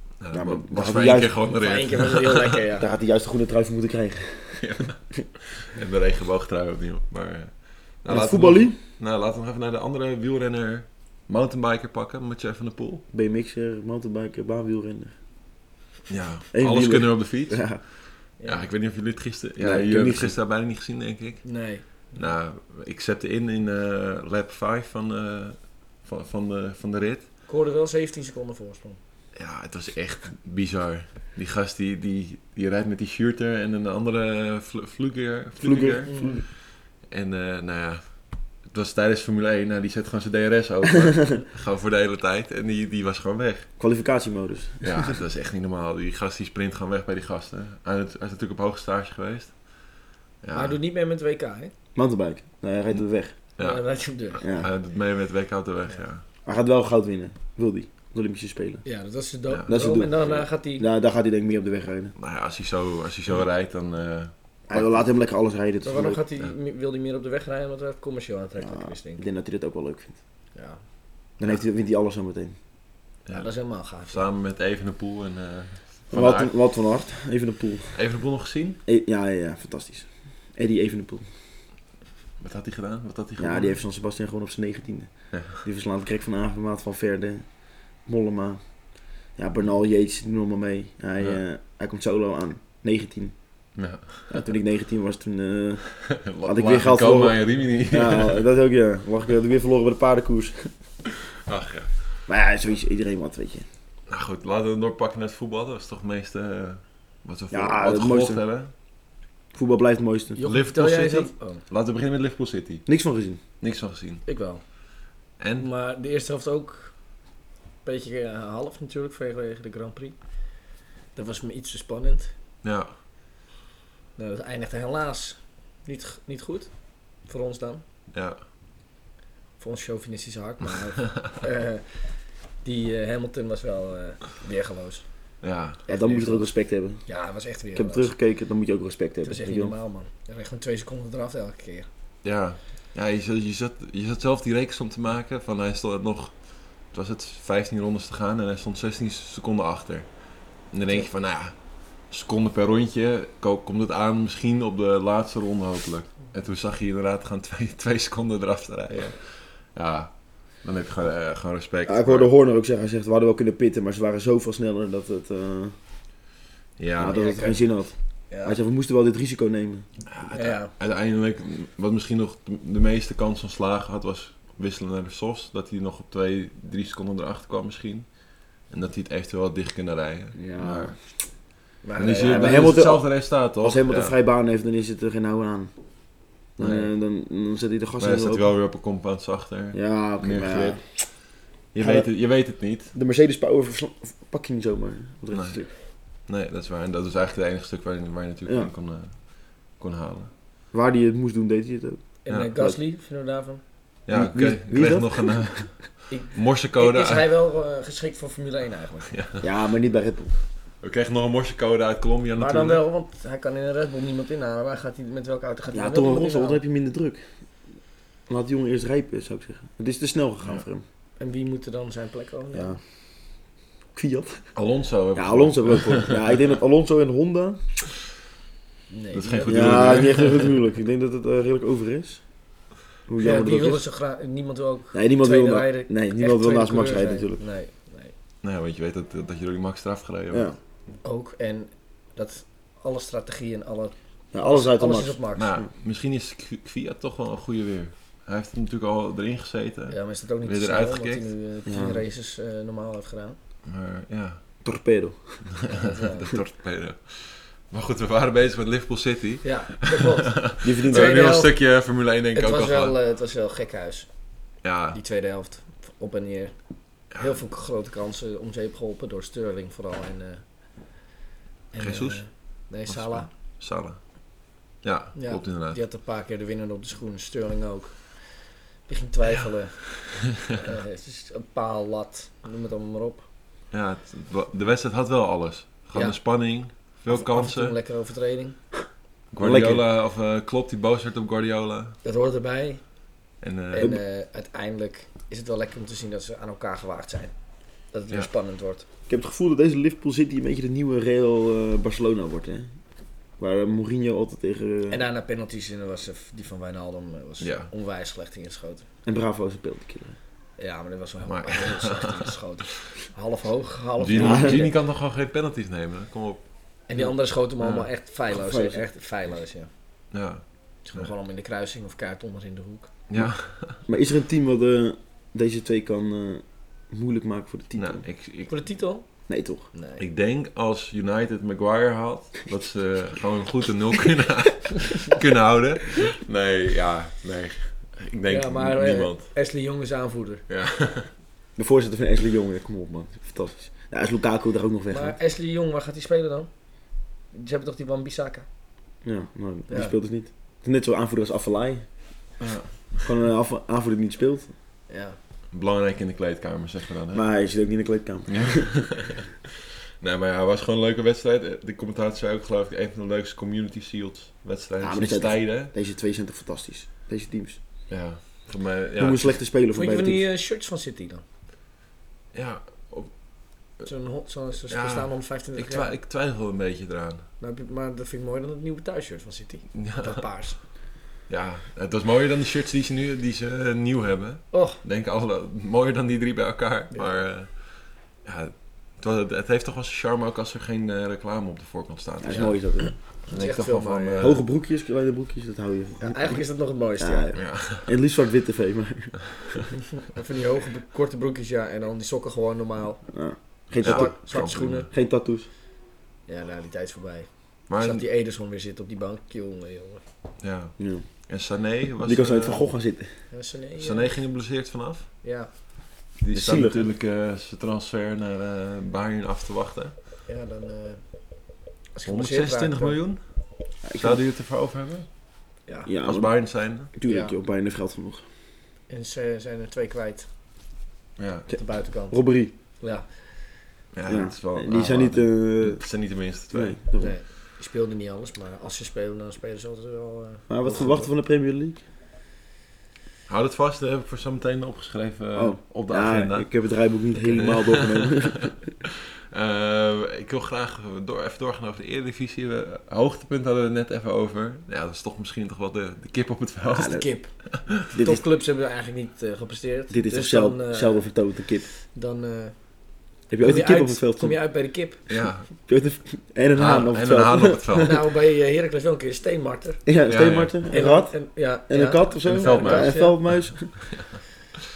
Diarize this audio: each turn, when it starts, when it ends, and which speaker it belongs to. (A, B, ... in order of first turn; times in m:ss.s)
0:00.2-0:02.6 A
0:00.3-0:01.3 B
0:01.5-0:02.9 C
0:02.8-0:04.7 B
0:04.6-0:13.0 A
0:08.1-0:08.8 B
0:13.1-0:15.1 B
0:16.1-0:17.8 A
0:16.5-0:17.8 B
0:18.4-0:18.7 C
0:18.4-0:21.5 A
0:19.6-0:20.3 B
0:21.4-0:21.9 C
0:22.1-0:27.2 A
0:27.5-0:29.0 C
0:29.3-0:36.4 A
0:35.6-0:36.4 B
0:36.0-0:36.4 C
0:37.1-0:38.1 A
0:38.7-0:43.7 A
0:43.8-0:45.2 B
0:44.8-0:49.6 A
0:50.4-0:50.8 A
0:50.5-0:51.7 C
0:51.9-0:53.3 B
0:53.6-0:56.2 A
0:53.6-0:54.4 C
0:54.4-0:54.7 B
0:56.4-0:58.8 B
0:58.8-1:00.9 C
0:59.7-1:02.1 B
1:02.2-1:05.1 A
1:04.7-1:06.2 B
1:05.8-1:09.2 C
1:08.6-1:10.2 B
1:10.5-1:10.8 C
1:11.4-1:12.5 B
1:13.2-1:16.5 A
1:13.3-1:14.2 C
1:16.1-1:18.0 B
1:17.9-1:18.8 A
1:18.8-1:21.2 B
1:22.4-1:23.8 A
1:23.4-1:27.4 B
1:25.3-1:25.6 A
1:28.0-1:28.6 B
1:29.4-1:33.3 B
1:33.8-1:34.4 A
1:34.3-1:40.7 B
1:36.1-1:38.4 A
1:41.5-1:41.9 A
1:42.3-1:43.6 B
1:44.1-1:48.7 A
1:47.5-1:48.4 B
1:49.5-1:50.4 B
1:50.4-1:51.6 C
1:50.4-1:52.8 A
1:52.9-1:53.4 B
1:53.6-1:54.2 A
1:54.2-1:54.6 C
1:55.4-1:55.7 A
1:55.6-1:56.9 C
1:57.8-2:00.2 C
2:01.1-2:02.3 C
2:02.6-2:02.9 A
2:04.2-2:06.7 C
2:07.2-2:07.8 C
2:08.1-2:08.4 A
2:09.6-2:12.0 C
2:12.6-2:15.0 C
2:15.4-2:15.8 A
2:15.9-2:16.4 C
2:15.9-2:17.0 B
2:17.0-2:18.1 C
2:17.7-2:19.7 B
2:19.2-2:21.9 C
2:22.2-2:26.4 A
2:26.9-2:30.1 A
2:30.7-2:31.5 A
2:32.1-2:42.3 A
2:41.8-2:45.7 B
2:46.8-2:47.2 A
2:47.0-2:49.8 B
2:47.1-2:47.6 C
2:48.3-2:48.6 C
2:50.1-2:58.1 A
2:50.3-2:50.7 C
2:58.7-3:01.0 A
3:00.4-3:01.0 B
3:01.8-3:02.8 C
3:02.0-3:04.1 A
3:02.0-3:05.7 B
3:06.6-3:08.5 B
3:06.6-3:06.9 A
3:08.0-3:11.2 A
3:09.7-3:10.8 B
3:11.7-3:12.9 A
3:11.8-3:12.1 B
3:12.9-3:15.7 B
3:15.3-3:15.6 A
3:16.2-3:20.3 A
3:18.4-3:18.7 B
3:20.7-3:22.8 B
3:22.2-3:23.6 C
3:24.0-3:27.3 A
3:24.1-3:25.6 B
3:26.1-3:29.1 C
3:29.1-3:29.4 A
3:29.4-3:30.3 B
3:30.8-3:32.8 A
3:32.4-3:36.6 C
3:35.7-3:37.2 B
3:38.3-3:40.8 B
3:41.2-3:42.8 C
3:42.5-3:42.8 B
3:43.9-3:44.5 B
3:44.5-3:46.2 A
3:45.1-3:47.6 B
3:48.9-3:50.0 C
3:49.1-3:50.6 A
3:49.5-3:52.2 B
3:53.1-3:53.8 B
3:53.2-3:58.1 C
3:54.9-3:57.4 B
3:58.4-4:00.5 A
4:00.3-4:00.6 B
4:01.0-4:05.5 C
4:04.3-4:05.6 B
4:05.4-4:11.3 A
4:09.9-4:13.4 C
4:11.6-4:12.0 B
4:13.6-4:14.4 A
4:14.6-4:15.5 B
4:15.5-4:23.0 A
4:15.7-4:16.3 C
4:19.4-4:21.6 C
4:20.6-4:21.2 B
4:22.3-4:24.1 C
4:24.6-4:25.0 A
4:24.9-4:26.5 C
4:27.1-4:27.4 A
4:27.1-4:30.4 C
4:31.7-4:33.3 C
4:31.8-4:32.2 A
4:32.8-4:34.1 A
4:34.8-4:35.8 A
4:35.1-4:43.2 C
4:43.7-4:47.8 A
4:47.1-4:48.6 C
4:49.3-4:52.0 A
4:49.4-4:49.8 B
4:52.0-4:52.8 C
4:53.4-4:53.9 A
4:53.7-4:57.3 C
4:57.9-4:58.8 C
4:59.1-5:02.7 B
5:03.4-5:05.0 B
5:04.9-5:08.9 C
5:07.4-5:07.7 A
5:09.0-5:10.2 B
5:10.6-5:14.7 C
5:11.2-5:12.3 A
5:14.0-5:16.4 A
5:14.1-5:14.7 B
5:16.9-5:19.7 C
5:17.6-5:17.9 A
5:18.3-5:18.8 B
5:20.1-5:21.1 A
5:20.8-5:22.9 C
5:23.1-5:23.8 A
5:23.8-5:28.0 B
5:27.8-5:28.6 A
5:28.5-5:29.1 C
5:29.3-5:29.7 B
5:29.7-5:30.0 C
5:30.0-5:39.3 A
5:38.3-5:40.4 C
5:40.5-5:41.1 A
5:41.6-5:45.2 B
5:44.9-5:46.5 C
5:47.3-5:48.4 C
5:49.0-5:51.8 B
5:49.7-5:50.0 C
5:52.4-5:53.1 A
5:53.0-5:54.5 B
5:54.9-5:55.2 C
5:55.5-5:57.2 A
5:57.1-5:58.8 B
5:58.3-5:59.2 A
6:00.0-6:05.7 A
6:04.8-6:07.6 B
6:07.9-6:09.4 A
6:09.0-6:10.2 B
6:09.7-6:11.2 C
6:12.3-6:13.1 A
6:13.8-6:15.9 C
6:14.7-6:17.3 A
6:17.4-6:20.6 C
6:19.7-6:20.2 A
6:21.3-6:34.4 A
6:24.5-6:24.8 C
6:32.2-6:32.9 B
6:33.3-6:34.3 C
6:34.2-6:36.4 B
6:36.0-6:37.3 C
6:37.0-6:39.7 B
6:37.3-6:37.9 A
6:40.0-6:43.0 C
6:43.1-6:44.3 B
6:43.8-6:44.9 C
6:43.8-6:44.9 A
6:44.9-6:45.5 B
6:46.3-6:50.0 C
6:47.7-6:48.0 A
6:50.4-6:50.8 A
6:50.8-6:51.0 B
6:51.3-6:52.6 A
6:52.0-6:53.1 B
6:53.3-6:54.2 C
6:53.8-6:55.1 A
6:55.2-6:55.5 C
6:56.2-6:59.9 A
6:56.3-6:56.8 B
7:00.3-7:01.0 C
7:01.9-7:03.0 C
7:02.0-7:03.2 A
7:03.8-7:04.2 B
7:03.9-7:05.1 A
7:05.8-7:08.2 B
7:06.0-7:06.9 A
7:07.0-7:07.3 C
7:08.9-7:10.3 C
7:11.2-7:11.5 A
7:11.5-7:12.5 B
7:11.5-7:12.2 C
7:12.8-7:13.1 C
7:13.9-7:16.8 A
7:14.0-7:15.8 B
7:16.5-7:17.1 B
7:17.0-7:21.1 C
7:20.5-7:21.8 B
7:23.3-7:26.7 A
7:25.3-7:28.6 B
7:27.3-7:37.3 A
7:36.8-7:37.0 B
7:36.8-7:41.2 C
7:37.9-7:38.2 B
7:39.9-7:41.7 B
7:41.9-7:42.7 C
7:43.3-7:44.4 B
7:43.4-7:45.0 C
7:45.1-7:45.5 A
7:45.7-7:47.9 B
7:46.5-7:48.0 A
7:47.8-7:49.8 C
7:49.8-7:53.7 B
7:50.1-7:50.5 A
7:50.7-7:53.2 C
7:52.3-7:54.2 A